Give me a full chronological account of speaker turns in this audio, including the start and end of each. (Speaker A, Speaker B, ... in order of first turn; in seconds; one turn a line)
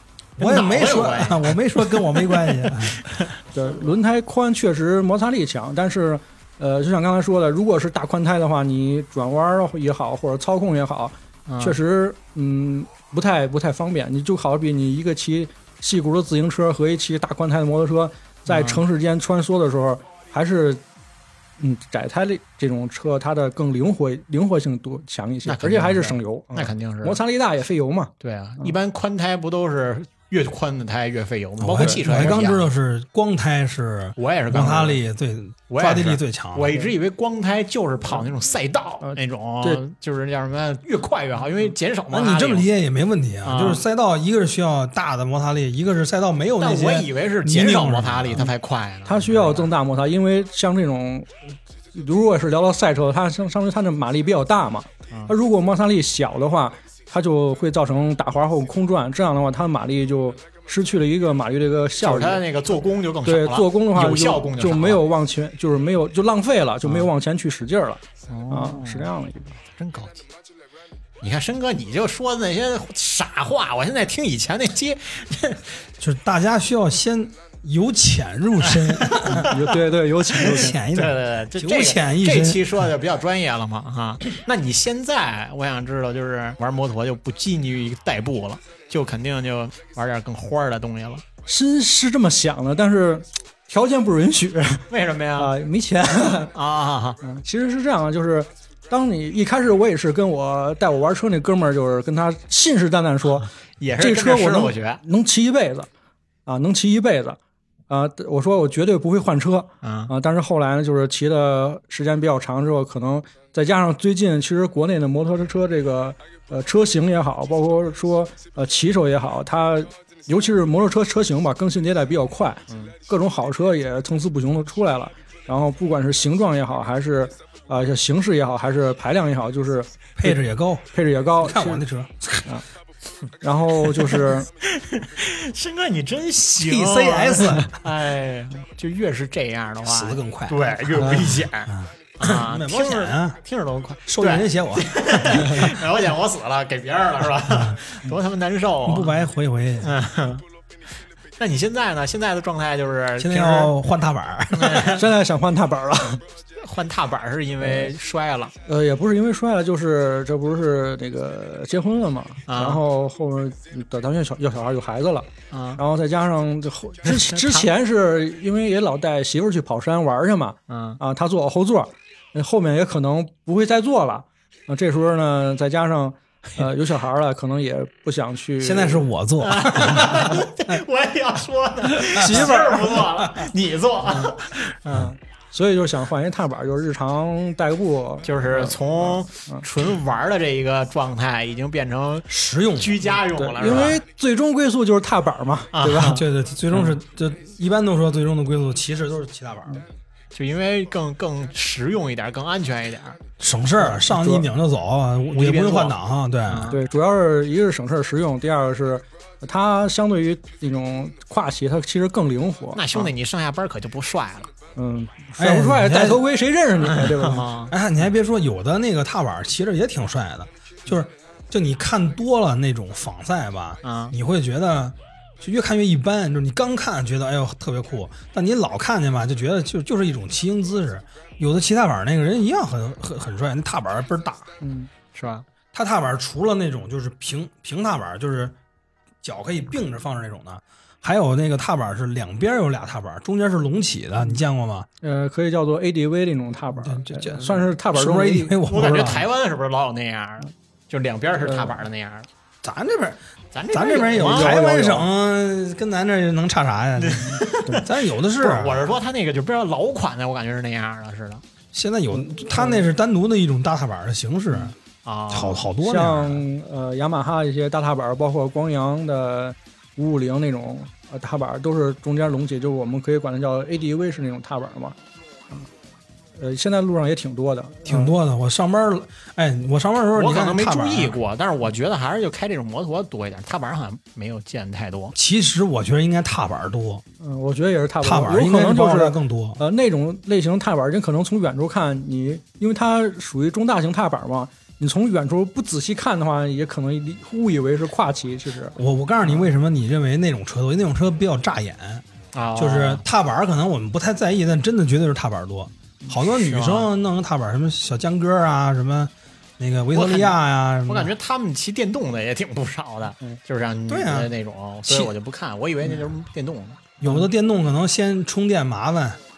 Speaker A: 0.4-3.1
Speaker B: 0.4-3.3
Speaker C: 3.5-20.8
Speaker B: 11.5-11.8
Speaker B: 18.5-18.8
Speaker C: 21.6-28.8
Speaker B: 25.4-27.2
Speaker B: 28.2-32.7
Speaker A: 31.6-36.7
Speaker C: 31.7-32.3
Speaker B: 34.2-35.0
Speaker B: 35.7-42.7
Speaker C: 39.0-39.8
Speaker A: 42.1-48.5
Speaker B: 43.4-43.8
Speaker B: 46.6-49.7
Speaker C: 49.1-62.5
Speaker B: 62.0-65.0
Speaker C: 63.2-69.6
Speaker B: 66.8-67.1
Speaker B: 68.3-69.1
Speaker B: 69.8-70.3
Speaker B: 71.2-75.8
Speaker A: 76.0-79.5
Speaker B: 78.7-79.7
Speaker C: 79.3-80.8
Speaker B: 80.3-91.2
Speaker A: 80.3-82.8
Speaker C: 91.5-94.9
Speaker B: 94.9-95.5
Speaker C: 95.4-96.5
Speaker B: 96.5-97.2
Speaker C: 97.2-105.9
Speaker B: 103.8-105.0
Speaker C: 106.5-107.4
Speaker C: 107.9-130.4
Speaker B: 109.8-110.1
Speaker A: 130.2-130.9
Speaker C: 130.9-131.8
Speaker A: 131.4-132.5
Speaker C: 133.4-134.5
Speaker B: 134.1-149.2
Speaker A: 136.6-137.8
Speaker A: 139.8-143.4
Speaker A: 144.1-145.8
Speaker A: 147.5-147.8
Speaker A: 148.9-149.9
Speaker B: 149.8-150.4
Speaker B: 151.4-153.8
Speaker A: 153.2-155.0
Speaker B: 154.5-155.0
Speaker C: 154.9-156.2
Speaker B: 156.6-158.5
Speaker C: 157.6-157.9
Speaker C: 158.7-179.1
Speaker B: 162.5-162.8
Speaker B: 165.5-165.8
Speaker B: 167.1-167.7
Speaker B: 170.7-171.0
Speaker A: 178.6-180.8
Speaker B: 179.4-185.1
Speaker C: 182.1-182.9
Speaker A: 182.2-183.5
Speaker C: 184.9-189.7
Speaker B: 188.2-194.0
Speaker A: 192.3-193.1
Speaker C: 193.3-196.2
Speaker B: 195.7-196.2
Speaker A: 196.0-199.8
Speaker B: 200.3-203.2
Speaker A: 203.4-206.8
Speaker C: 203.8-204.5
Speaker B: 205.3-206.0
Speaker B: 206.5-206.8
Speaker C: 206.7-213.1
Speaker B: 212.8-214.5
Speaker C: 214.8-217.5
Speaker A: 215.4-216.2
Speaker B: 216.8-217.7
Speaker A: 217.7-234.5
Speaker B: 223.8-224.2
Speaker C: 234.6-234.9
Speaker B: 235.1-235.4
Speaker A: 235.7-238.6
Speaker A: 239.2-244.9
Speaker C: 245.0-249.2
Speaker A: 246.8-249.2
Speaker B: 248.7-252.3
Speaker C: 251.4-251.8
Speaker A: 252.6-253.2
Speaker B: 253.5-254.6
Speaker A: 253.7-258.9
Speaker C: 254.2-255.1
Speaker B: 257.0-261.4
Speaker A: 261.7-264.8
Speaker C: 262.6-262.8
Speaker B: 265.1-265.7
Speaker A: 265.3-266.4
Speaker C: 265.8-275.0
Speaker C: 276.4-278.1
Speaker A: 277.9-281.2
Speaker B: 280.1-285.1
Speaker A: 285.1-287.0
Speaker C: 287.2-299.5
Speaker A: 288.0-289.6
Speaker A: 298.8-302.0
Speaker B: 302.3-303.0
Speaker A: 302.6-311.1
Speaker B: 306.3-306.9
Speaker B: 309.9-316.9
Speaker A: 313.9-314.3
Speaker A: 314.9-315.1
Speaker A: 317.0-319.2